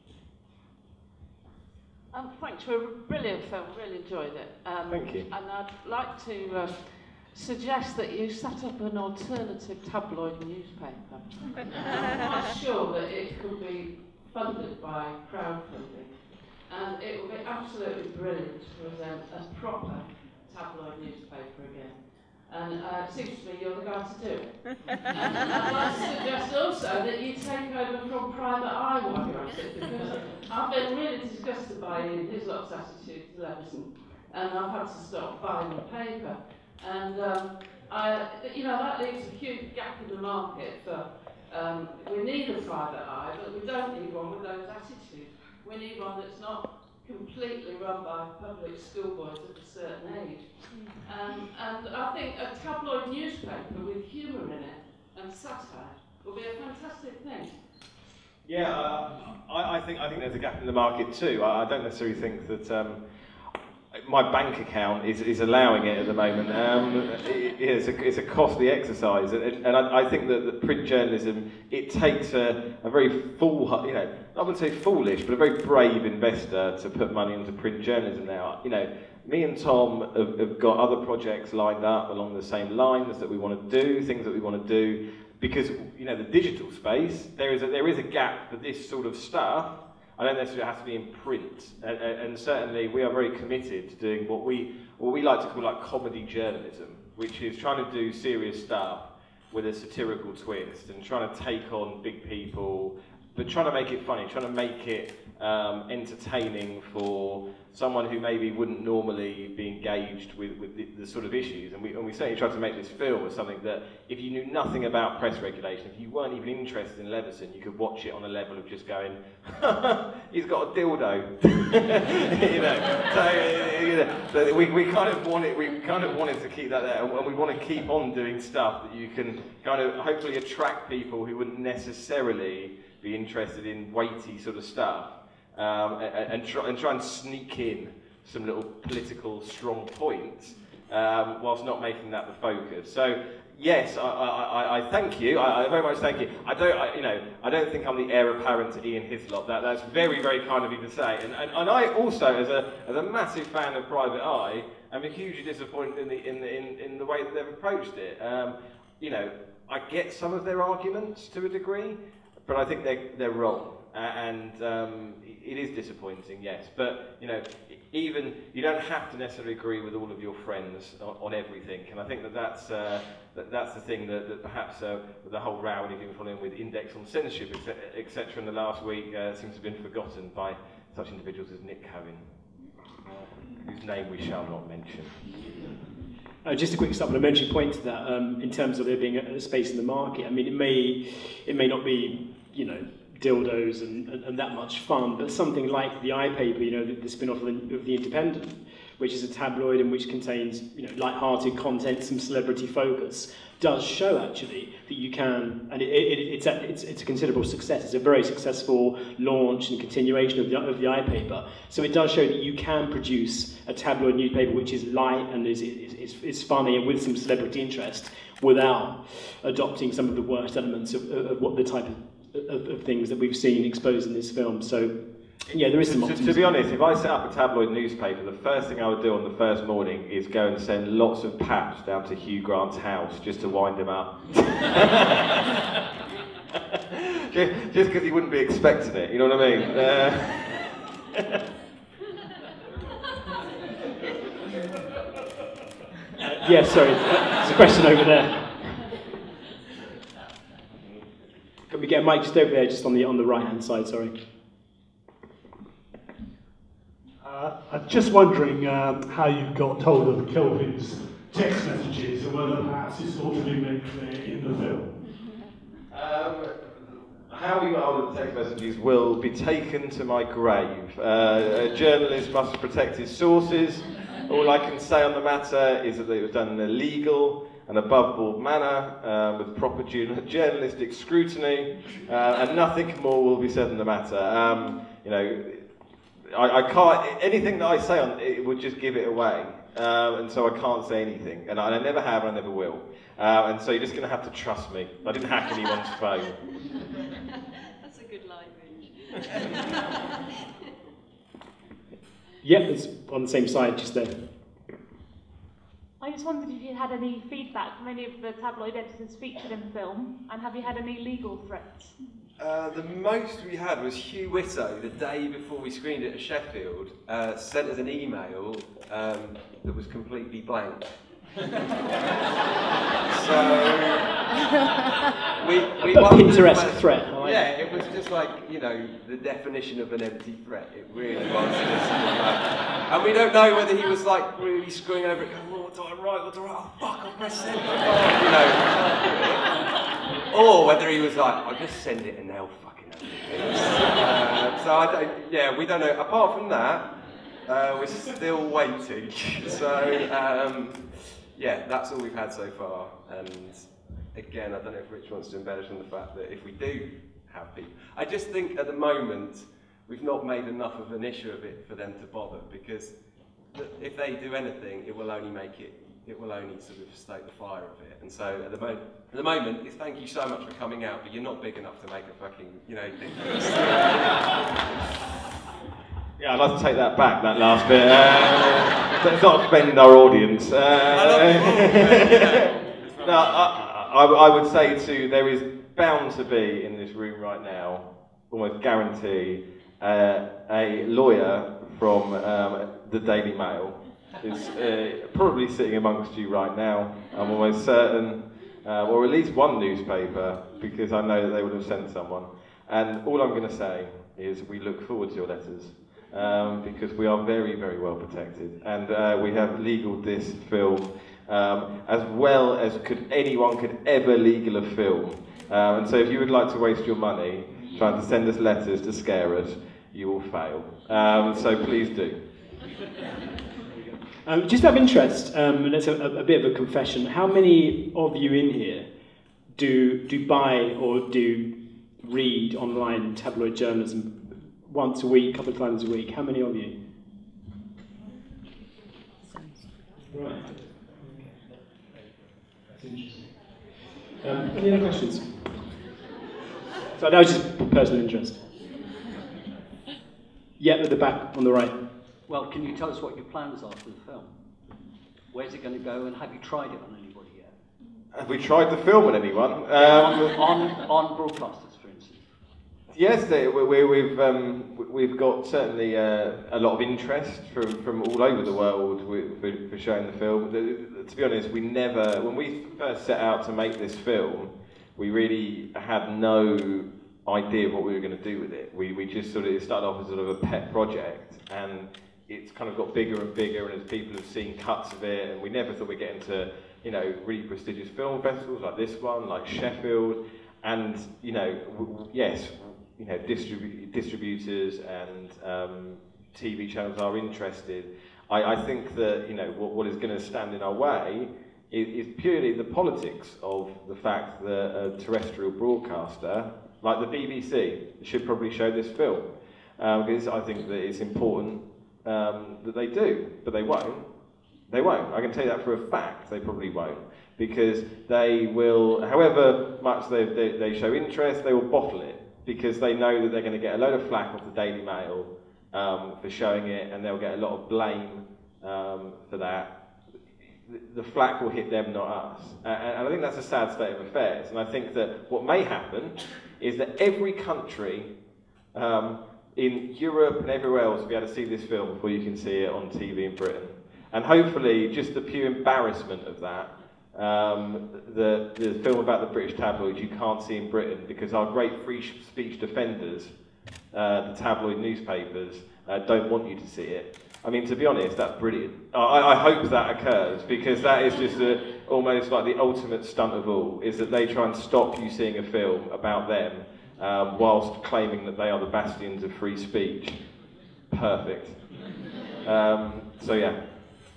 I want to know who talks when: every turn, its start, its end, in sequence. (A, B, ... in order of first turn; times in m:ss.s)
0:02.1-0:57.6 A
0:04.9-0:05.3 B
0:58.4-1:03.0 B
1:03.9-3:02.2 B
3:03.6-3:05.1 B
3:06.4-3:44.9 C
3:45.5-3:55.6 B
3:45.5-3:46.5 C
3:57.3-4:00.9 B
4:06.2-4:08.8 C
4:11.7-4:14.1 C
4:17.2-4:25.0 D
4:25.9-4:45.6 B
4:46.3-4:56.4 B
4:57.8-5:00.1 E
5:02.4-5:04.1 C
5:06.0-5:11.9 F
5:12.4-5:20.9 G
5:23.0-5:24.3 G
5:25.4-5:39.6 G
5:25.9-5:27.5 C
5:40.2-5:46.9 G
5:47.4-6:02.9 G
6:03.5-6:14.7 G
6:16.2-7:02.2 B
6:20.8-6:23.7 G
7:04.2-7:08.9 C
7:09.5-7:16.7 C
7:20.0-7:21.3 C
7:22.7-7:25.8 C
7:26.9-7:28.4 C
7:30.6-7:31.8 C
7:32.3-7:34.3 H
7:35.3-7:37.5 H
7:38.1-7:40.4 B
7:39.8-7:42.2 H
7:42.9-8:34.1 B
8:34.7-8:49.7 B
8:50.7-8:58.1 B
8:58.7-9:13.3 B
9:13.9-9:30.2 B
9:30.9-9:31.6 B
9:32.4-9:33.6 B